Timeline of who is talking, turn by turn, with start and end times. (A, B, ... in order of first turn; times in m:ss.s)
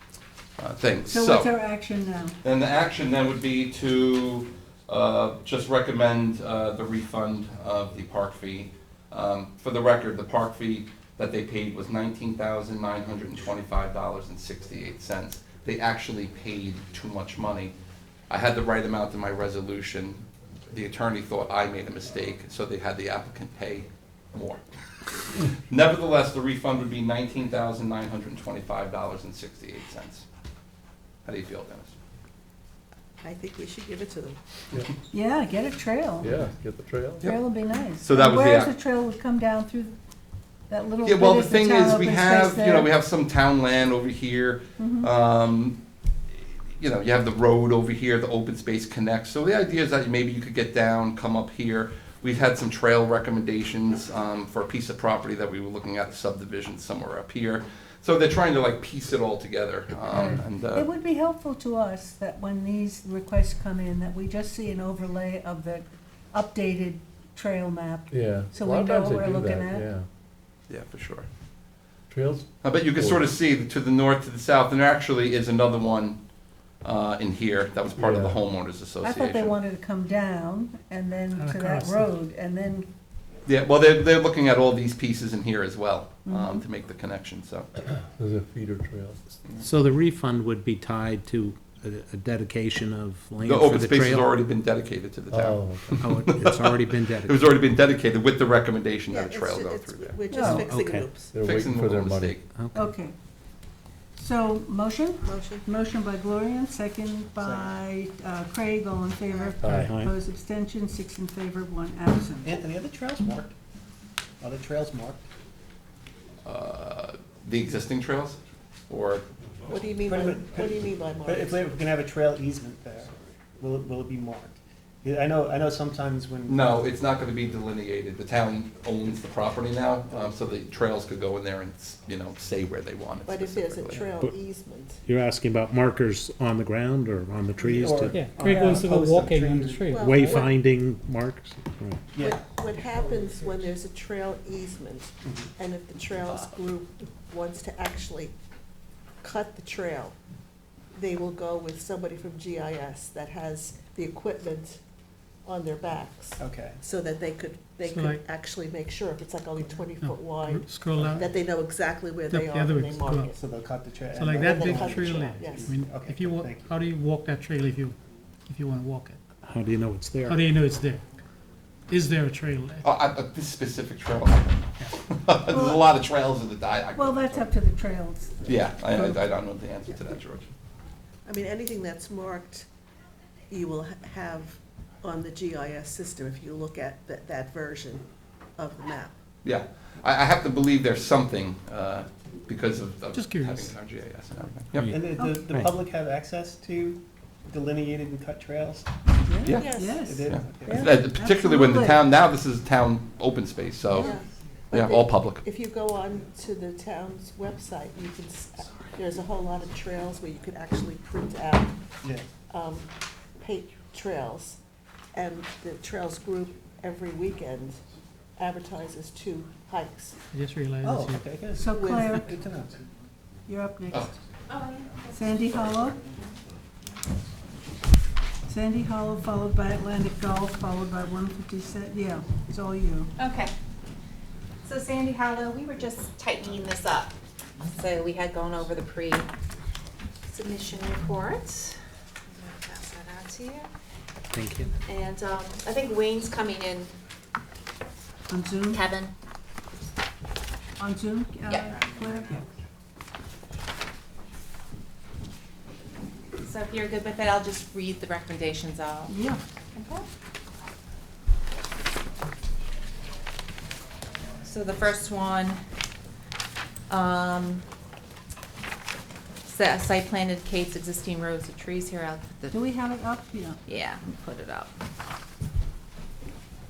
0:00.6-0:01.5 A
0:01.1-0:02.4 B
0:02.4-0:17.7 A
0:18.3-0:24.6 A
0:25.5-0:30.2 A
0:31.2-0:31.9 A
0:33.2-0:34.4 C
0:35.1-0:36.3 B
0:36.2-0:37.3 D
0:37.2-0:38.7 A
0:37.2-0:40.0 B
0:40.7-0:42.9 B
0:41.0-0:45.8 A
0:44.8-0:45.1 B
0:46.7-1:00.9 A
1:00.1-1:09.9 B
1:08.1-1:10.0 D
1:10.7-1:11.3 A
1:12.1-1:13.3 D
1:12.6-1:16.2 A
1:16.8-1:19.6 A
1:17.9-1:18.4 D
1:19.0-1:22.9 B
1:21.3-1:22.1 E
1:23.5-1:27.7 A
1:26.2-1:26.6 B
1:27.9-1:29.2 D
1:29.6-1:34.3 F
1:33.4-1:40.2 A
1:35.3-1:36.2 D
1:36.0-1:37.4 F
1:39.1-1:41.3 C
1:40.3-1:40.6 B
1:40.4-1:41.1 F
1:41.3-1:42.4 D
1:41.4-1:42.4 A
1:42.7-1:43.1 B
1:44.2-1:52.5 B
1:45.2-1:45.6 C
1:47.4-1:47.8 G
1:49.3-1:49.6 C
1:49.6-1:49.9 D
1:49.8-1:50.1 F
1:52.4-1:53.5 G
1:54.4-1:55.2 G
1:56.4-1:59.2 A
1:59.7-2:01.6 C
2:00.0-2:06.7 G
2:06.5-2:14.0 A
2:13.2-2:15.0 C
2:14.1-2:14.4 F
2:15.0-2:18.3 F
2:17.6-2:19.9 G
2:18.1-2:20.0 E
2:19.9-2:20.5 C
2:19.9-2:22.0 F
2:22.1-2:23.6 G
2:22.2-2:28.3 C
2:29.2-2:30.1 C
2:30.9-2:34.8 C
2:35.4-2:43.3 C
2:36.4-2:36.8 G
2:37.9-2:38.2 E
2:40.0-2:41.3 E
2:42.3-2:43.3 E
2:43.3-2:46.7 G
2:44.1-2:48.0 E
2:44.3-2:45.8 C
2:48.5-2:49.2 E
2:49.4-2:50.4 F
2:50.2-2:51.0 E
2:51.9-2:52.8 E
2:52.8-2:57.5 A
2:55.5-2:55.9 B
2:56.9-2:59.2 B
2:58.4-3:00.5 A
3:01.2-3:02.7 C
3:03.5-3:08.0 C
3:08.6-3:09.1 C
3:09.4-3:14.9 A
3:13.1-3:13.8 E
3:14.7-3:15.7 F
3:14.9-3:18.9 G
3:15.1-3:15.4 B
3:19.3-3:22.0 B
3:19.4-3:24.2 A
3:19.6-3:20.9 C
3:19.7-3:20.9 G
3:23.9-3:24.2 B
3:24.0-3:31.8 C
3:24.7-3:25.4 A
3:32.0-3:32.3 G
3:32.5-3:34.6 C
3:35.1-3:37.8 C
3:38.4-3:40.2 C
3:40.3-3:41.2 E
3:40.8-3:42.8 G
3:41.6-3:42.4 B
3:41.7-3:42.2 C
3:43.5-3:44.1 B
3:44.5-3:45.0 H
3:45.1-3:46.0 B
3:48.4-3:53.1 B
3:53.2-3:53.5 H
3:54.6-3:59.3 H
4:00.3-4:01.8 H
4:02.3-4:03.7 H
4:04.3-4:04.7 F
4:04.8-4:06.9 H
4:08.3-4:08.8 B
4:08.7-4:09.1 H
4:10.8-4:12.4 B
4:11.5-4:11.8 H
4:16.4-4:19.1 H
4:19.1-4:19.4 B
4:19.7-4:20.1 H
4:24.4-4:25.6 H
4:26.9-4:27.6 H
4:29.4-4:32.6 H
4:32.5-4:33.6 B
4:33.6-4:34.7 H